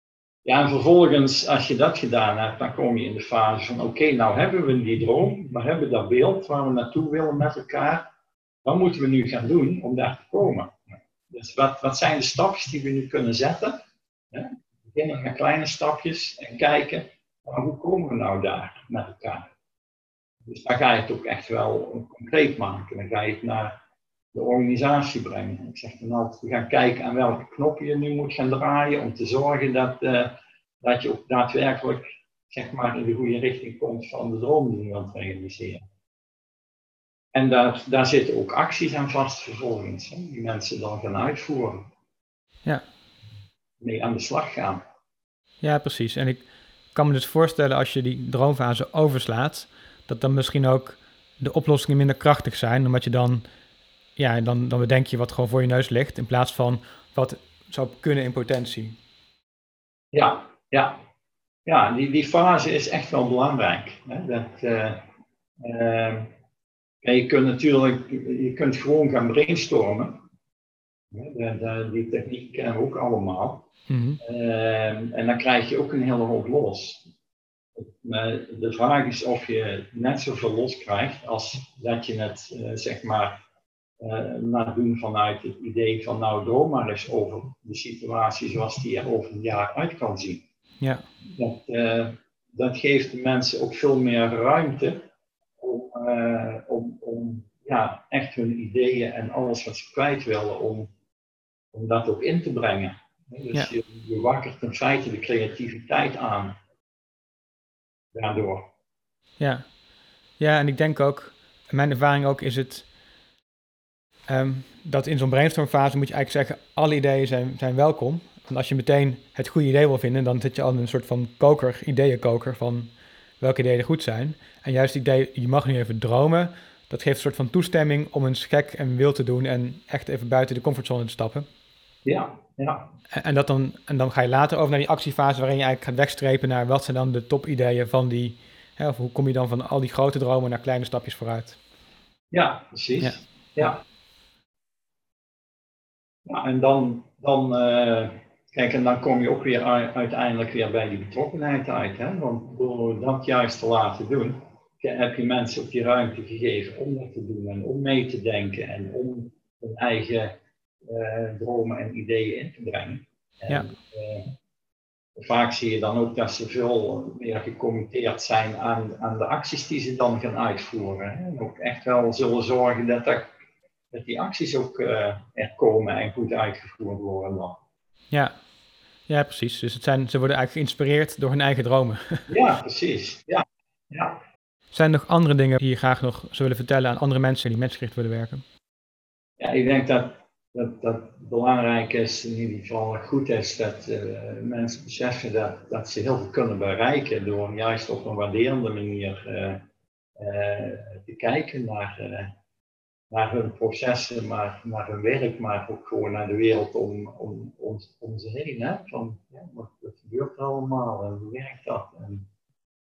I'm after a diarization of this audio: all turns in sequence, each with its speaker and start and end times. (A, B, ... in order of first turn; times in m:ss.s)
0:00.4-0:08.0 A
0:08.6-0:13.8 A
0:14.3-0:19.5 A
0:20.4-0:23.8 A
0:24.3-0:35.8 A
0:37.3-0:41.9 A
0:43.8-0:44.8 A
0:45.6-0:53.5 B
0:54.2-0:59.0 B
1:00.1-1:01.0 A
1:01.6-1:05.0 A
1:05.6-1:06.3 A
1:07.0-1:10.2 A
1:11.1-1:13.7 A
1:13.9-1:14.2 B
1:14.2-1:17.1 A
1:17.8-1:23.4 A
1:24.0-1:30.4 A
1:30.8-1:31.0 B
1:31.4-1:35.0 A
1:35.6-1:40.9 A
1:41.7-1:46.5 A
1:48.1-1:48.7 A
1:49.4-1:49.8 B
1:50.4-1:52.9 B
1:54.3-2:11.5 B
2:12.0-2:12.9 A
2:13.1-2:21.6 B
2:22.3-2:23.8 A
2:23.0-2:23.7 B
2:26.2-2:44.3 A
2:45.2-2:53.3 A
2:53.9-2:57.6 A
2:58.1-2:58.5 B
2:59.0-3:02.3 B
3:02.3-3:04.2 A
3:04.7-3:08.4 B
3:09.4-3:19.6 A
3:20.2-3:22.3 A
3:23.1-3:32.2 A